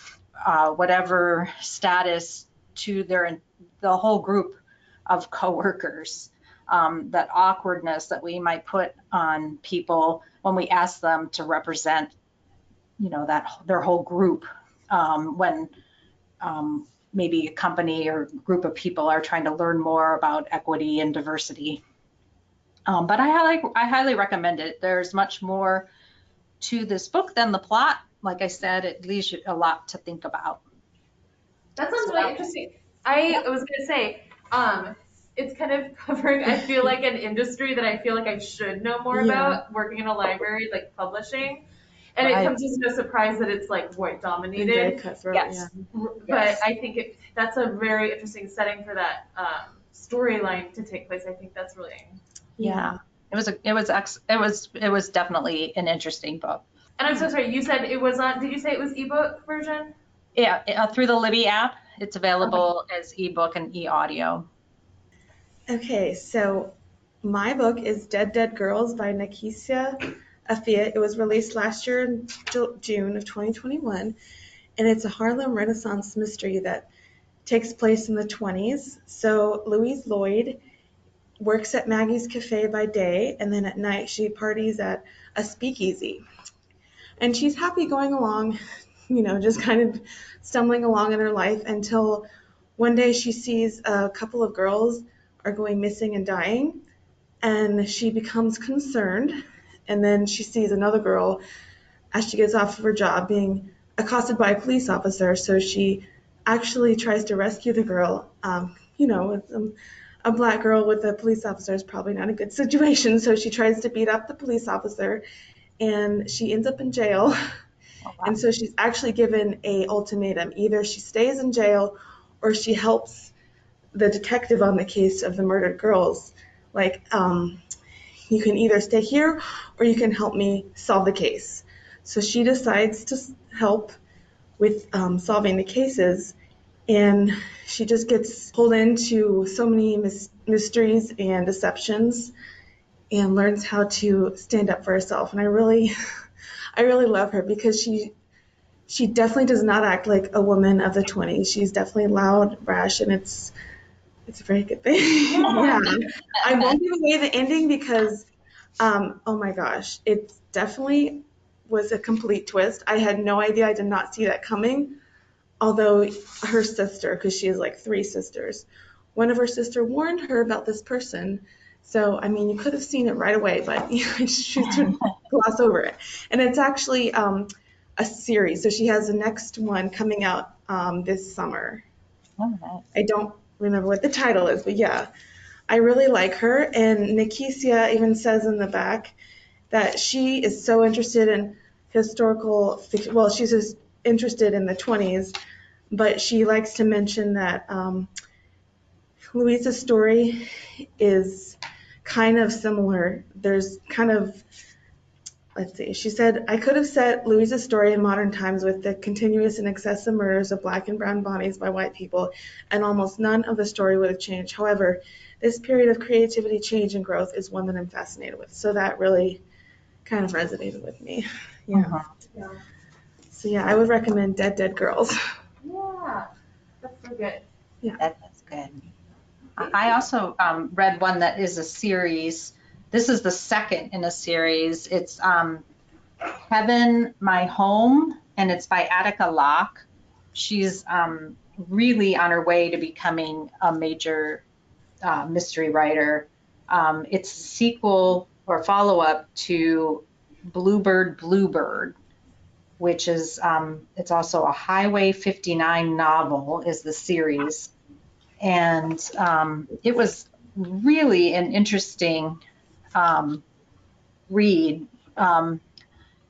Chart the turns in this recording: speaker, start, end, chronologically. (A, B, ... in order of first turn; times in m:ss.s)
0:00.4-0:12.2 A
0:13.0-0:15.7 A
0:16.4-0:21.8 A
0:22.9-0:25.9 A
0:26.6-0:30.6 A
0:31.8-0:45.0 B
0:32.0-0:32.5 A
0:39.1-0:39.6 C
0:42.2-0:42.6 A
0:44.6-0:45.7 C
0:45.3-0:45.7 A
0:45.9-0:52.2 B
0:46.2-0:46.6 A
0:52.6-0:53.0 C
0:52.6-0:56.6 A
0:57.0-0:59.9 B
1:00.4-1:04.5 A
1:05.7-1:14.2 C
1:14.8-1:16.9 C
1:17.5-1:20.6 C
1:21.4-1:26.2 C
1:27.2-1:28.6 C
1:29.1-1:36.8 C
1:37.4-1:39.4 C
1:39.9-1:41.4 C
1:42.1-1:55.2 C
1:55.8-1:57.4 C
1:58.0-1:58.4 A
1:58.2-2:03.3 C
2:03.9-2:07.6 C
2:08.3-2:14.0 C
2:14.6-2:16.4 C
2:16.9-2:22.3 C
2:23.1-2:25.9 C
2:26.8-2:28.1 C
2:28.9-2:33.5 C
2:34.3-2:38.3 C
2:38.8-2:45.0 C
2:45.6-3:01.8 C
3:02.4-3:02.8 A
3:02.9-3:05.1 C
3:05.7-3:09.1 C
3:09.7-3:15.3 C
3:15.9-3:18.1 C
3:19.3-3:20.5 C
3:21.0-3:24.4 C
3:25.6-3:39.4 C
3:40.0-3:42.0 C
3:41.7-3:42.0 A
3:43.3-3:45.2 C
3:45.6-3:46.3 B
3:46.8-3:47.4 B
3:48.0-3:48.8 A
3:49.6-3:55.6 A
3:56.5-4:04.4 A
4:05.0-4:12.0 A
4:12.8-4:17.7 A
4:18.4-4:22.4 A
4:22.9-4:23.4 A
4:24.3-4:25.6 A